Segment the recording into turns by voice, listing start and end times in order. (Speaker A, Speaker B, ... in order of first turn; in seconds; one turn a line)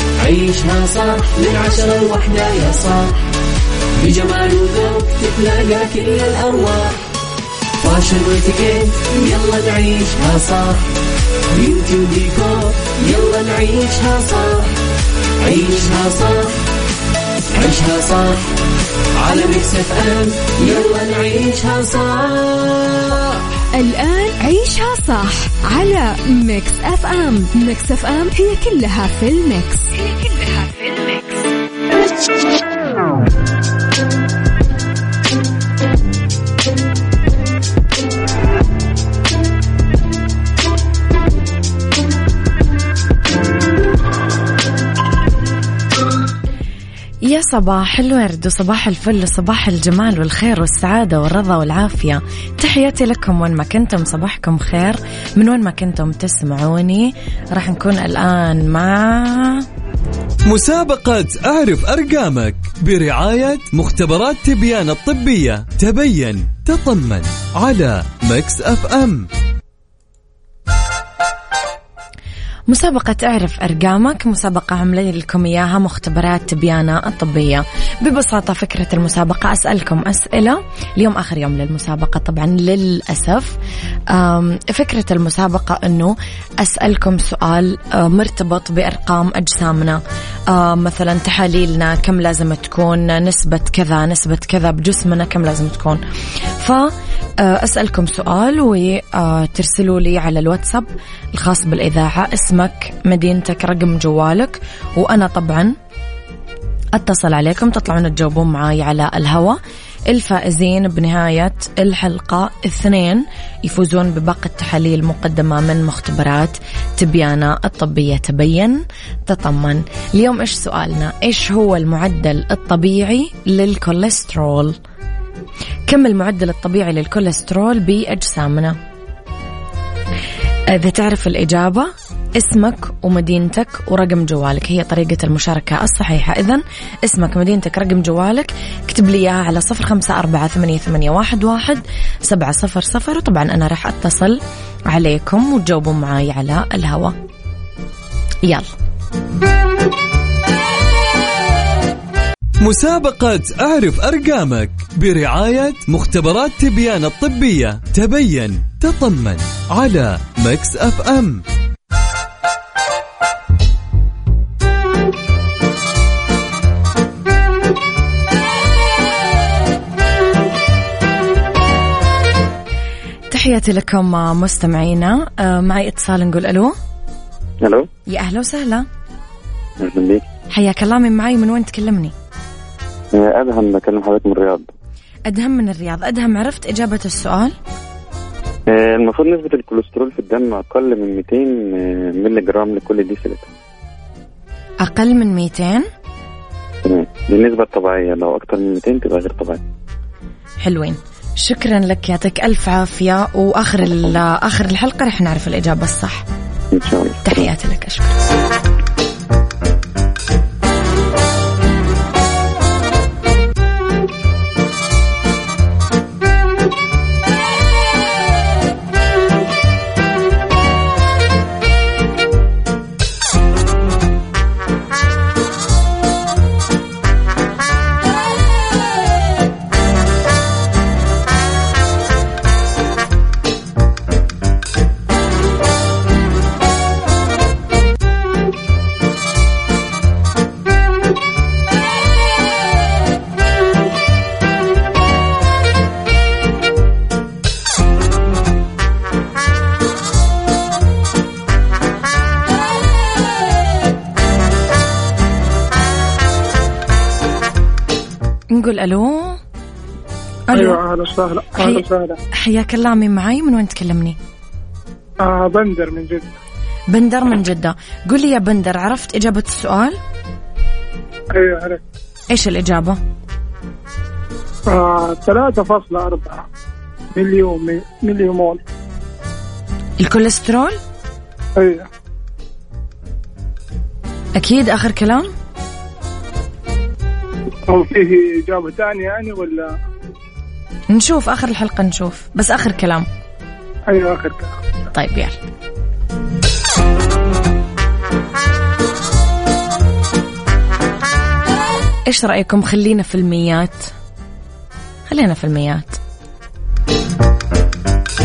Speaker A: 0.2-3.2
Speaker A: 4.0-7.1
Speaker A: 7.8-10.9
Speaker A: 11.5-14.7
Speaker A: 15.4-16.6
Speaker A: 17.5-18.6
Speaker A: 19.1-23.3
Speaker B: 23.7-29.9
Speaker A: 30.0-31.4
Speaker C: 47.2-59.7
Speaker D: 60.5-69.3
Speaker C: 72.7-83.6
Speaker C: 84.1-96.0
Speaker C: 96.5-105.8
Speaker C: 106.9-124.8
Speaker C: 125.9-128.8
Speaker C: 130.7-147.1
Speaker C: 148.4-148.7
Speaker D: 152.6-161.4
Speaker C: 173.3-176.8
Speaker C: 178.1-178.8
Speaker E: 179.8-180.2
Speaker C: 180.5-182.1
Speaker E: 183.1-184.7
Speaker C: 185.3-187.6
Speaker E: 188.7-193.5
Speaker C: 194.8-195.8
Speaker E: 196.8-199.6
Speaker C: 200.6-206.2
Speaker E: 206.7-207.4
Speaker C: 207.2-208.2
Speaker C: 258.5-259.4
Speaker C: 260.5-260.8
Speaker F: 260.5-262.2
Speaker C: 261.5-264.2
Speaker F: 265.2-266.3
Speaker C: 266.9-270.0
Speaker F: 271.3-271.8
Speaker C: 272.3-273.0
Speaker F: 274.7-276.4
Speaker F: 277.1-278.6
Speaker C: 280.0-280.8
Speaker F: 281.6-281.9
Speaker C: 284.4-285.3
Speaker F: 287.7-289.7
Speaker C: 290.9-293.1
Speaker F: 293.9-294.5
Speaker C: 294.9-295.4
Speaker C: 302.1-303.9
Speaker C: 305.1-306.0